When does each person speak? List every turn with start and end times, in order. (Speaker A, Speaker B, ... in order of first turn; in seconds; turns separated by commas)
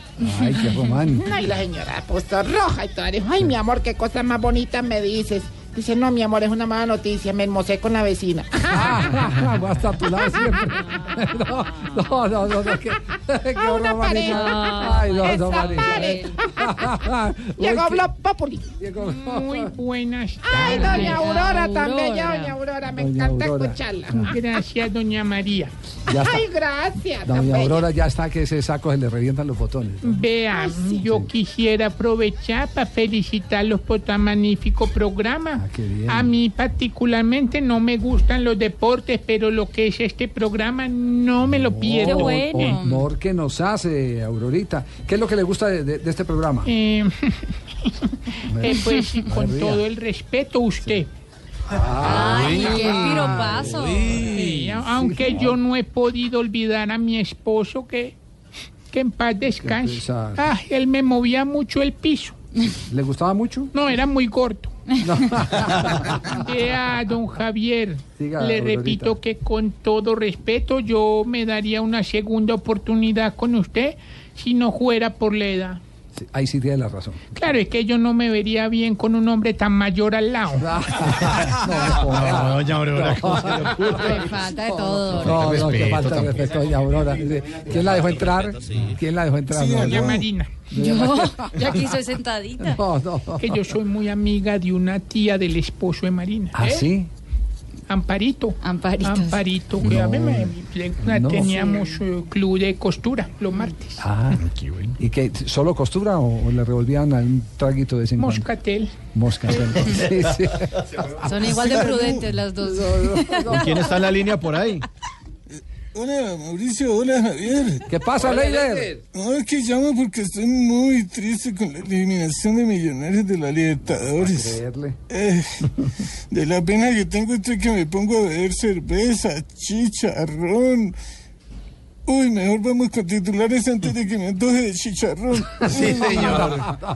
Speaker A: 0.2-1.3, Speaker B: 1.1-9.3, Speaker A: 8.7-18.1, Speaker B: 13.6-16.7, Speaker C: 14.2-16.3, Speaker B: 17.6-18.6, Speaker A: 18.8-19.8, Speaker D: 19.1-21.0, Speaker B: 20.4-24.2, Speaker C: 20.5-22.5, Speaker A: 22.9-24.4, Speaker D: 24.1-25.7, Speaker A: 26.1-26.4, Speaker B: 26.1-27.8, Speaker A: 27.2-30.2, Speaker D: 30.0-42.7, Speaker B: 30.5-30.9, Speaker A: 31.0-31.3, Speaker A: 35.5-36.3, Speaker A: 41.4-46.7, Speaker C: 41.9-43.0, Speaker D: 46.7-47.3, Speaker A: 48.5-49.8, Speaker D: 48.6-51.1, Speaker C: 48.7-49.1, Speaker A: 51.7-54.1, Speaker C: 52.0-54.3, Speaker D: 54.3-58.1, Speaker A: 54.7-55.6, Speaker D: 58.9-62.4, Speaker A: 59.6-60.5, Speaker A: 62.9-63.7, Speaker D: 63.7-64.8, Speaker A: 65.0-66.4, Speaker D: 66.3-75.8, Speaker A: 68.2-69.1, Speaker A: 76.1-77.2, Speaker D: 77.3-80.7, Speaker A: 80.6-84.3, Speaker E: 81.1-84.2, Speaker C: 83.9-85.6, Speaker E: 85.0-86.4, Speaker A: 85.1-91.8, Speaker E: 87.7-89.0, Speaker F: 89.5-90.2, Speaker D: 89.8-90.5, Speaker C: 90.8-92.8, Speaker A: 92.6-93.6, Speaker D: 93.4-96.8, Speaker A: 96.5-97.1, Speaker D: 97.9-104.0, Speaker C: 98.6-99.4, Speaker A: 99.8-101.7, Speaker A: 104.0-104.4, Speaker E: 104.4-105.0, Speaker A: 105.0-108.5, Speaker D: 108.2-108.9, Speaker A: 109.1-111.5, Speaker C: 111.2-113.8, Speaker F: 111.8-112.2, Speaker A: 112.8-113.7, Speaker E: 113.5-114.8, Speaker F: 115.9-118.2, Speaker A: 117.9-119.0, Speaker F: 119.1-125.7, Speaker A: 123.9-125.0, Speaker F: 126.3-130.9, Speaker F: 132.1-136.5, Speaker E: 135.7-136.7, Speaker A: 136.0-136.7